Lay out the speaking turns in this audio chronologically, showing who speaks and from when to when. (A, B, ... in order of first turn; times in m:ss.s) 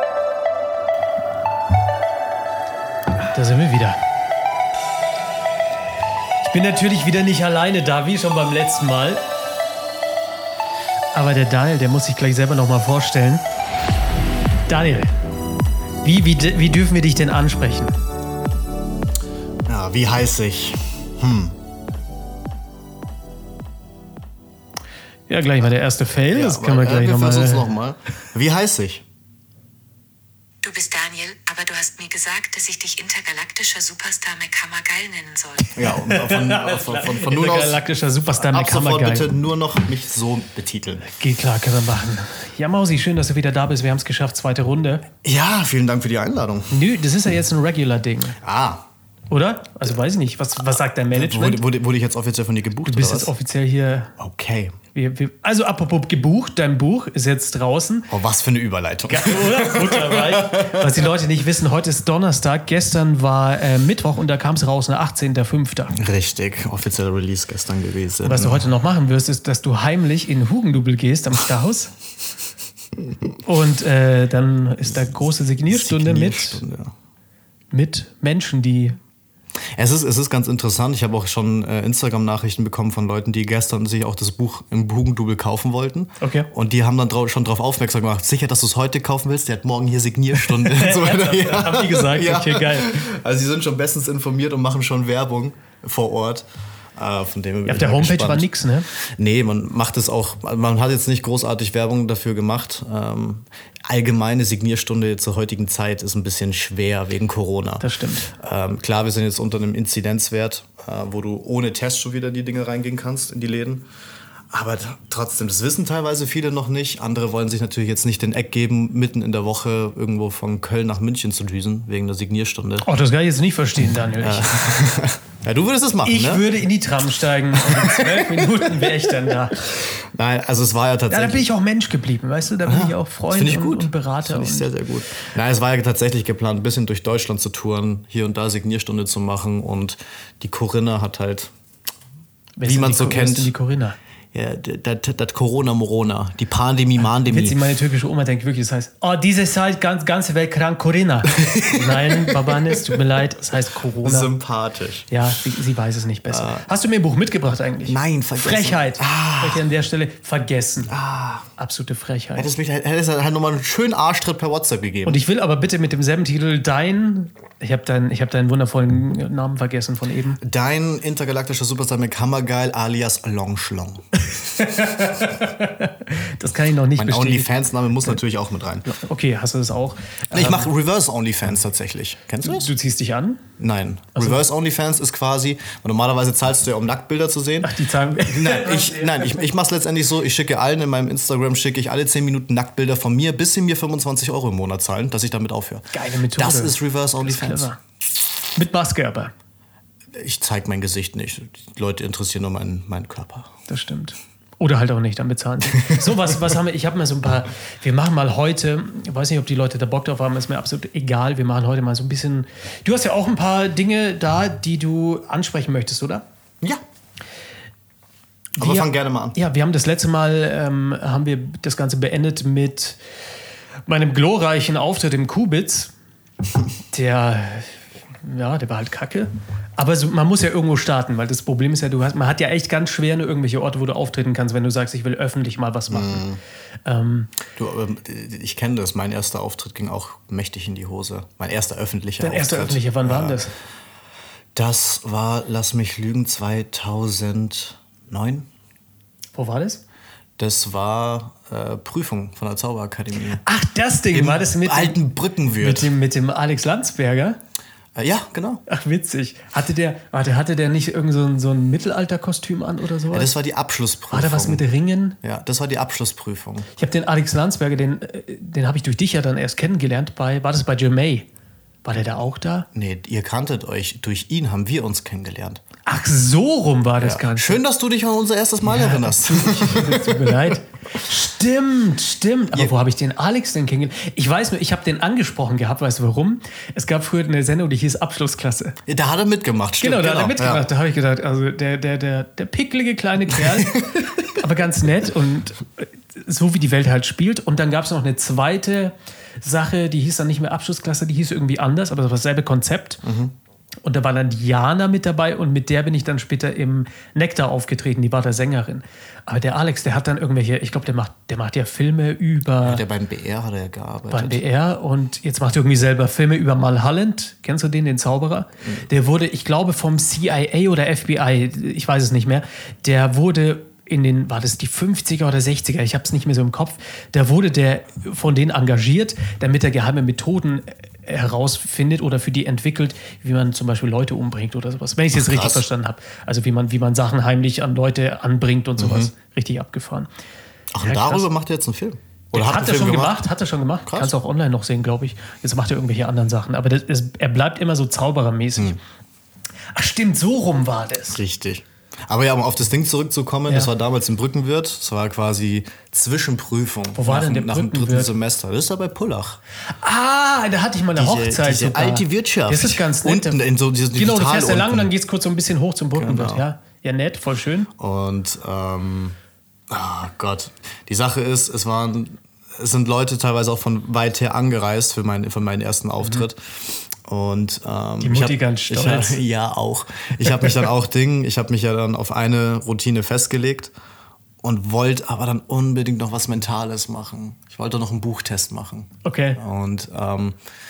0:03.3-0:04.0 A
0:06.4-0:09.2 A
0:11.2-0:13.4 A
0:14.7-0:15.1 A
0:16.0-0:18.0 A
0:19.7-0:21.6 B
0:25.3-0:27.7 A
0:26.3-0:29.0 B
0:30.6-0:35.8 C
0:35.7-0:37.8 B
0:35.8-0:39.3 A
0:38.4-0:41.1 B
0:41.1-0:45.0 A
0:45.2-0:46.8 B
0:46.7-0:48.4 A
0:48.4-0:48.8 B
0:49.3-0:51.6 A
0:51.1-0:53.3 B
0:52.8-0:54.1 A
0:54.2-0:54.8 B
0:54.9-0:58.1 A
0:58.1-1:01.0 B
0:59.1-1:06.0 A
1:05.9-1:08.7 B
1:08.2-1:11.9 A
1:13.4-1:16.6 A
1:15.7-1:16.9 B
1:17.7-1:19.0 A
1:19.8-1:38.5 B
1:26.2-1:26.5 A
1:30.6-1:33.0 A
1:37.7-1:38.9 A
1:39.0-1:53.9 B
1:47.8-1:48.3 A
1:54.5-2:02.9 B
2:02.8-2:04.7 A
2:04.2-2:06.5 B
2:06.0-2:09.6 A
2:07.6-2:08.9 B
2:10.0-2:11.5 B
2:11.1-2:14.7 A
2:12.6-2:21.5 B
2:22.6-2:24.0 A
2:22.6-2:23.5 B
2:24.3-2:27.6 B
2:27.2-2:34.3 A
2:31.4-2:33.0 B
2:34.0-2:35.1 B
2:35.1-2:40.9 A
2:36.3-2:36.7 B
2:37.9-2:39.7 B
2:40.9-2:41.5 B
2:41.6-2:42.5 A
2:42.4-2:45.2 B
2:45.1-2:50.4 A
2:50.4-2:54.0 B
2:54.3-2:57.5 A
2:57.0-2:58.9 B
2:58.9-3:00.7 A
3:00.3-3:02.7 B
3:02.4-3:03.4 A
3:03.6-3:17.7 B
3:07.6-3:09.5 A
3:15.9-3:17.8 A
3:18.6-3:19.3 A
3:20.1-3:23.5 B
3:23.7-3:36.2 A
3:38.6-3:43.0 A
3:38.6-3:39.4 B
3:43.9-3:45.9 A
3:46.9-3:56.3 A
3:55.9-3:56.4 B
3:56.9-3:57.3 A
3:57.5-4:03.4 B
4:02.2-4:03.5 A
4:04.5-4:08.5 B
4:09.3-4:09.8 A
4:10.4-4:13.4 B
4:13.4-4:15.0 A
4:14.1-4:15.9 B
4:15.6-4:17.4 A
4:17.9-4:18.6 B
4:18.7-4:23.3 A
4:23.1-4:24.6 B
4:24.1-4:25.2 A
4:25.2-4:26.7 B
4:26.8-4:31.3 A
4:31.8-4:32.7 A
4:32.7-4:35.6 B
4:35.8-4:37.6 A
4:37.0-4:40.6 B
4:38.6-4:48.8 A
4:48.8-4:50.6 B
4:49.8-5:03.0 A
4:53.3-4:54.1 B
5:03.0-5:03.3 B
5:03.8-5:12.8 A
5:12.6-5:14.4 B
5:14.1-5:40.1 A
5:35.1-5:35.6 B
5:38.8-5:39.1 B
5:40.7-5:43.2 B
5:40.8-5:41.3 A
5:42.3-5:48.8 A
5:43.8-5:44.1 B
5:49.8-5:51.2 A
5:51.1-5:59.4 B
5:56.9-5:58.1 A
5:59.7-6:03.4 A
6:01.0-6:04.9 B
6:03.9-6:07.7 A
6:05.9-6:06.4 B
6:07.8-6:09.2 B
6:09.7-6:23.7 B
6:18.0-6:19.2 A
6:24.4-6:30.4 B
6:29.0-6:29.4 A